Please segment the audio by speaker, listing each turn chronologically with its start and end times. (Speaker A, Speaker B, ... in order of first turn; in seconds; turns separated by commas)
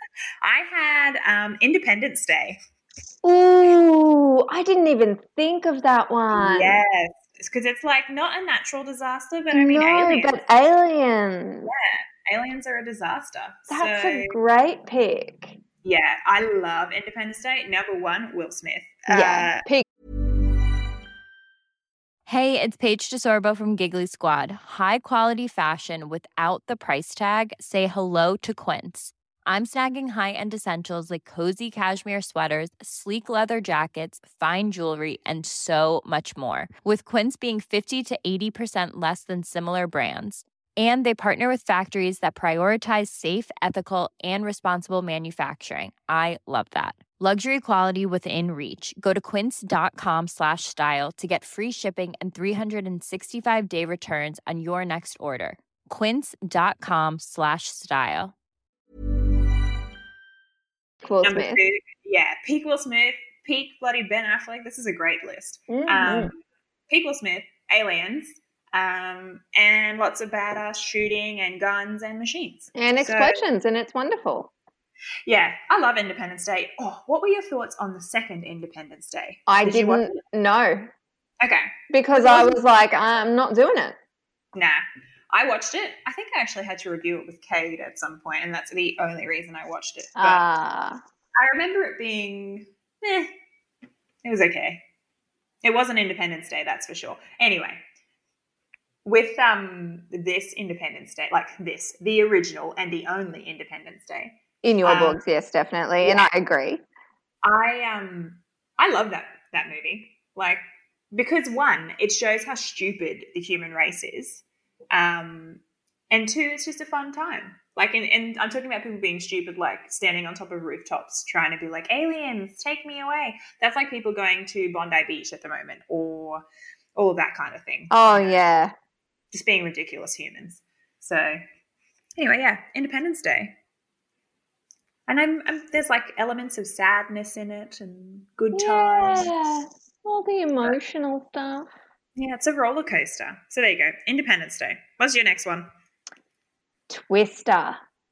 Speaker A: 0.4-2.6, Speaker B: 3.2-6.8, Speaker A: 6.3-10.4, Speaker B: 9.5-11.7, Speaker A: 11.6-14.4, Speaker B: 13.7-15.6, Speaker A: 15.8-19.6, Speaker B: 19.1-19.8, Speaker C: 22.2-58.3, Speaker B: 61.0-61.6, Speaker A: 61.2-66.4, Speaker B: 65.7-66.3, Speaker A: 66.9-73.4, Speaker B: 72.7-74.5, Speaker A: 75.2-80.1, Speaker B: 79.5-80.9, Speaker A: 81.4-82.6, Speaker B: 81.9-84.0, Speaker A: 84.5-90.4, Speaker B: 90.2-91.0, Speaker A: 91.4-93.3, Speaker A: 94.2-94.8, Speaker A: 95.6-97.8, Speaker A: 99.0-105.2, Speaker B: 104.6-106.8, Speaker A: 107.4-110.6, Speaker A: 111.1-126.4, Speaker A: 127.0-128.4, Speaker B: 127.9-128.7, Speaker A: 129.3-131.4, Speaker A: 132.2-133.5, Speaker A: 135.1-139.5, Speaker B: 138.5-141.7, Speaker A: 142.2-145.7, Speaker B: 146.9-147.8